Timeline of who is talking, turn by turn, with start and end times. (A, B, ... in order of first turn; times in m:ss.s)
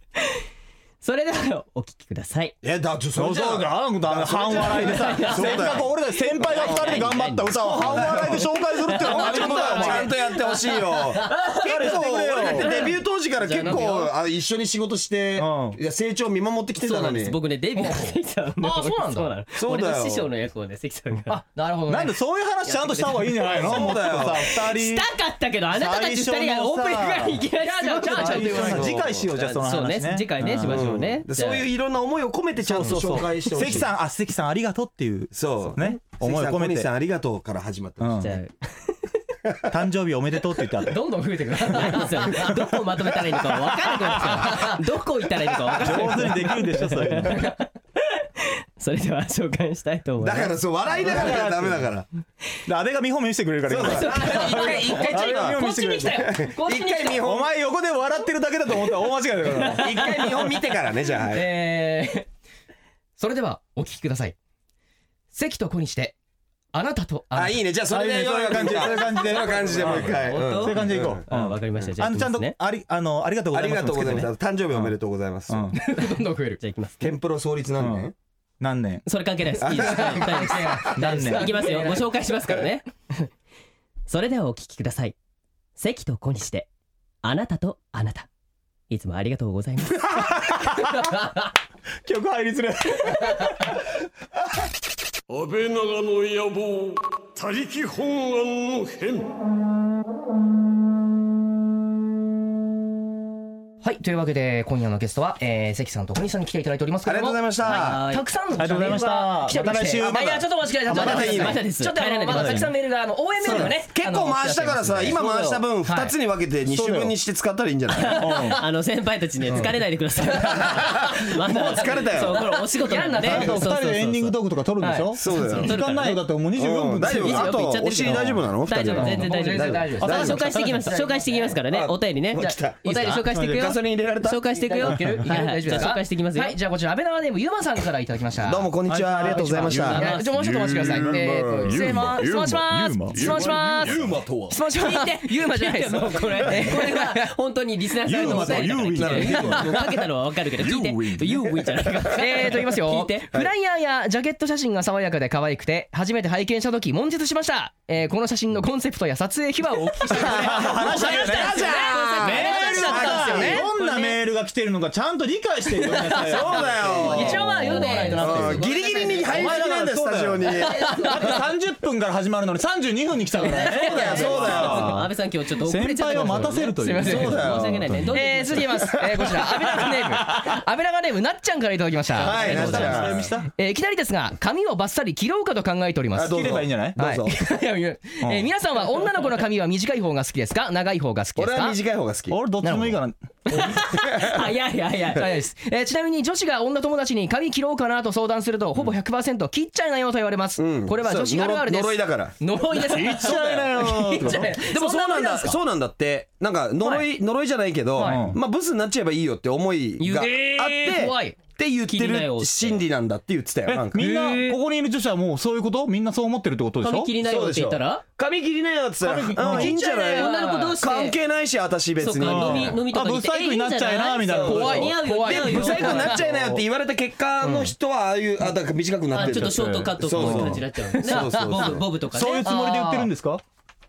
0:01.0-0:02.6 A
0:02.6-0:05.9 B
0:03.2-0:10.2 C
0:04.6-0:05.9 A
0:06.4-0:14.1 A
0:06.4-0:17.4 B
0:09.2-0:10.0 D
0:11.3-0:13.0 C
0:15.4-0:15.8 C
0:16.8-0:21.4 A
0:17.8-0:19.3 D
0:19.6-0:20.3 B
0:21.3-0:22.2 D
0:21.9-0:25.1 C
0:22.6-0:31.7 A
0:23.5-0:24.4 B
0:25.7-0:31.0 C
0:27.6-0:28.9 D
0:28.6-0:29.3 B
0:30.5-0:33.9 B
0:32.6-0:36.9 C
0:32.8-0:33.3 A
0:35.3-0:38.3 B
0:38.0-0:38.4 C
0:38.2-0:39.0 A
0:39.5-0:39.7 B
0:39.7-0:41.0 C
0:40.9-0:42.5 D
0:41.7-0:47.6 A
0:41.7-0:42.4 C
0:44.2-0:44.8 D
0:45.8-0:47.5 C
0:48.4-0:50.6 A
0:50.2-0:52.1 B
0:51.0-0:51.9 C
0:52.7-0:56.4 C
0:53.7-0:55.6 B
0:53.8-0:54.9 A
0:53.9-0:57.2 D
0:56.2-0:57.5 B
0:57.2-1:00.0 C
0:59.7-1:01.5 B
1:01.3-1:02.3 D
1:03.2-1:04.4 D
1:05.3-1:06.2 D
1:06.7-1:07.6 D
1:07.3-1:11.3 B
1:07.9-1:15.0 C
1:09.5-1:12.6 A
1:13.5-1:15.8 B
1:15.5-1:15.8 C
1:15.7-1:16.6 D
1:16.6-1:17.1 A
1:17.0-1:18.1 B
1:17.8-1:19.0 C
1:19.1-1:23.3 A
1:19.6-1:20.4 B
1:19.7-1:22.1 D
1:20.9-1:21.6 C
1:24.1-1:25.2 A
1:25.8-1:26.7 A
1:27.2-1:28.3 A
1:28.9-1:30.3 A
1:30.0-1:31.2 C
1:32.0-1:33.8 C
1:35.3-1:39.3 E
1:43.8-1:56.2 D
1:47.0-1:48.0 B
1:47.6-1:48.3 A
1:48.6-1:51.6 C
1:50.9-1:52.7 A
1:51.0-1:51.6 B
1:52.3-1:52.7 C
1:53.4-1:58.3 B
1:56.6-1:57.2 C
1:58.0-2:04.4 A
1:58.2-1:58.6 C
1:59.5-2:01.0 D
2:00.6-2:02.4 B
2:02.2-2:03.6 D
2:03.2-2:09.3 C
2:04.8-2:05.1 D
2:05.2-2:05.8 B
2:05.3-2:06.2 A
2:06.6-2:10.6 B
2:07.0-2:16.6 A
2:08.9-2:11.6 D
2:10.0-2:10.8 C
2:11.6-2:12.8 B
2:12.4-2:13.3 D
2:13.3-2:13.8 C
2:13.4-2:14.5 B
2:14.5-2:18.7 D
2:14.9-2:15.3 C
2:18.4-2:20.1 B
2:18.9-2:24.6 C
2:19.3-2:21.2 A
2:19.9-2:27.3 D
2:23.2-2:24.6 B
2:24.7-2:33.3 A
2:28.0-2:32.1 C
2:28.1-2:29.9 B
2:32.2-2:43.7 D
2:40.1-2:43.7 B
2:40.1-2:41.6 C
2:41.4-2:44.2 A
2:42.2-2:48.7 C
2:45.7-2:48.7 D
2:46.2-2:51.0 B
2:46.4-2:49.7 A
2:49.3-2:58.6 C
2:50.7-2:51.4 D
2:53.4-2:54.6 D
2:53.5-2:58.9 A
2:53.7-2:55.1 B
2:56.3-2:57.4 D
2:57.0-2:57.9 B
2:58.1-3:11.8 D
2:59.8-3:00.6 C
3:02.2-3:03.3 B
3:02.2-3:03.5 C
3:02.2-3:03.1 A
3:06.2-3:07.4 B
3:06.2-3:07.0 C
3:08.2-3:08.5 C
3:11.4-3:12.4 B
3:12.3-3:13.7 C
3:12.6-3:13.0 D
3:13.5-3:15.3 A
3:14.0-3:14.4 B
3:15.1-3:25.6 D
3:20.6-3:22.4 B
3:22.8-3:24.6 C
3:23.1-3:34.1 B
3:26.8-3:27.1 D
3:28.0-3:28.3 D
3:28.0-3:28.4 C
3:30.0-3:31.0 A
3:30.3-3:31.4 D
3:31.9-3:32.8 A
3:33.7-3:37.1 C
3:34.0-3:34.5 D
3:36.8-3:38.0 A
3:37.2-3:42.8 B
3:39.0-3:39.8 C
3:39.4-3:40.8 D
3:39.5-3:41.2 A
3:42.0-3:46.2 A
3:42.1-3:45.0 C
3:44.3-3:51.9 B
3:44.4-3:46.2 D
3:45.6-3:46.6 C
3:47.4-3:47.7 D
3:49.1-3:52.6 A
3:49.1-3:50.6 C
3:51.0-3:51.7 D
3:52.1-3:53.4 C
3:52.4-3:53.1 D